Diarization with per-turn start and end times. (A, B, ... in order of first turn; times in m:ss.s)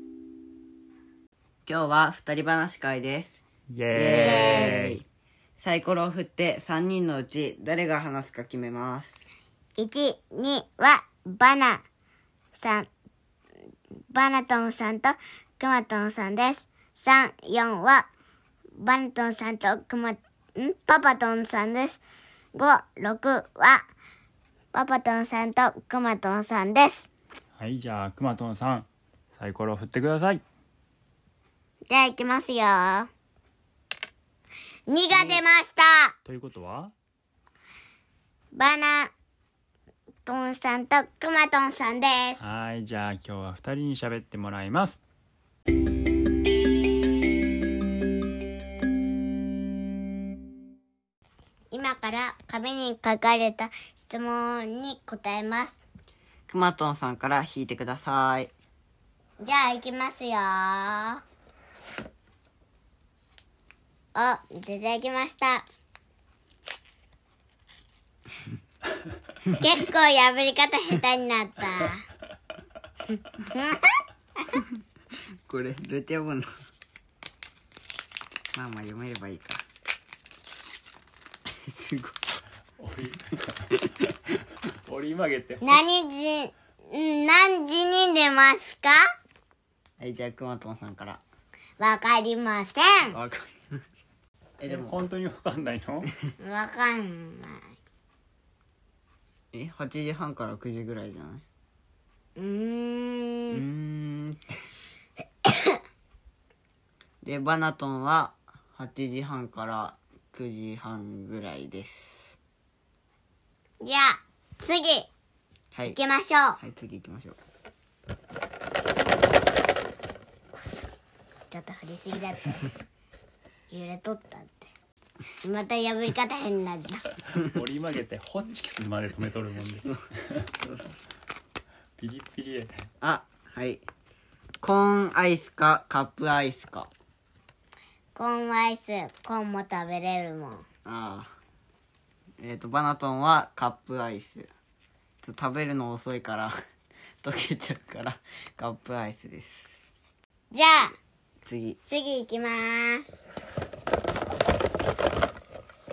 0:01.7-0:05.0 A
0:03.7-0:05.0 B
0:04.2-0:04.8 C
0:05.6-0:09.2 A
0:09.8-0:11.8 C
0:12.5-0:12.9 C
0:14.1-0:18.1 C
0:18.8-0:22.0 C
0:22.6-0:23.8 C
0:24.7-0:27.1 C
0:27.6-0:30.4 B
0:31.9-0:33.1 C
0:34.9-0:36.1 C
0:35.1-0:35.4 A
0:36.3-0:36.9 B
0:38.5-0:39.1 C
0:40.3-0:42.4 C
0:42.4-0:45.0 B
0:51.7-0:55.8 C
0:56.5-0:58.5 A
0:59.4-1:01.2 C
1:04.2-1:05.6 C
1:09.6-1:12.0 C
1:13.4-1:13.9 C
1:15.5-1:16.4 A
1:18.5-1:19.6 A
1:21.6-1:22.2 A
1:22.8-1:25.8 B
1:25.6-1:29.0 C
1:30.0-1:31.2 A
1:31.8-1:33.2 C
1:33.1-1:33.8 A
1:34.6-1:35.0 A
1:34.7-1:36.1 B
1:36.4-1:37.7 C
1:39.5-1:41.4 A
1:42.4-1:43.6 C
1:43.5-1:44.4 A
1:45.5-1:45.8 C
1:47.2-1:52.4 A
1:53.8-1:55.1 C
1:55.9-1:56.6 C
1:56.6-1:57.4 A
2:01.5-2:02.7 C
2:03.7-2:04.7 C
2:05.4-2:07.0 C
2:07.4-2:10.5 B
2:12.0-2:12.7 B
2:13.0-2:13.8 A
2:14.6-2:16.9 A
2:18.2-2:20.6 C
2:20.8-2:21.3 A
2:22.4-2:24.5 A
2:25.2-2:26.5 A
2:27.2-2:29.9 A
2:30.5-2:30.9 C
2:31.5-2:31.8 A
2:31.9-2:33.1 C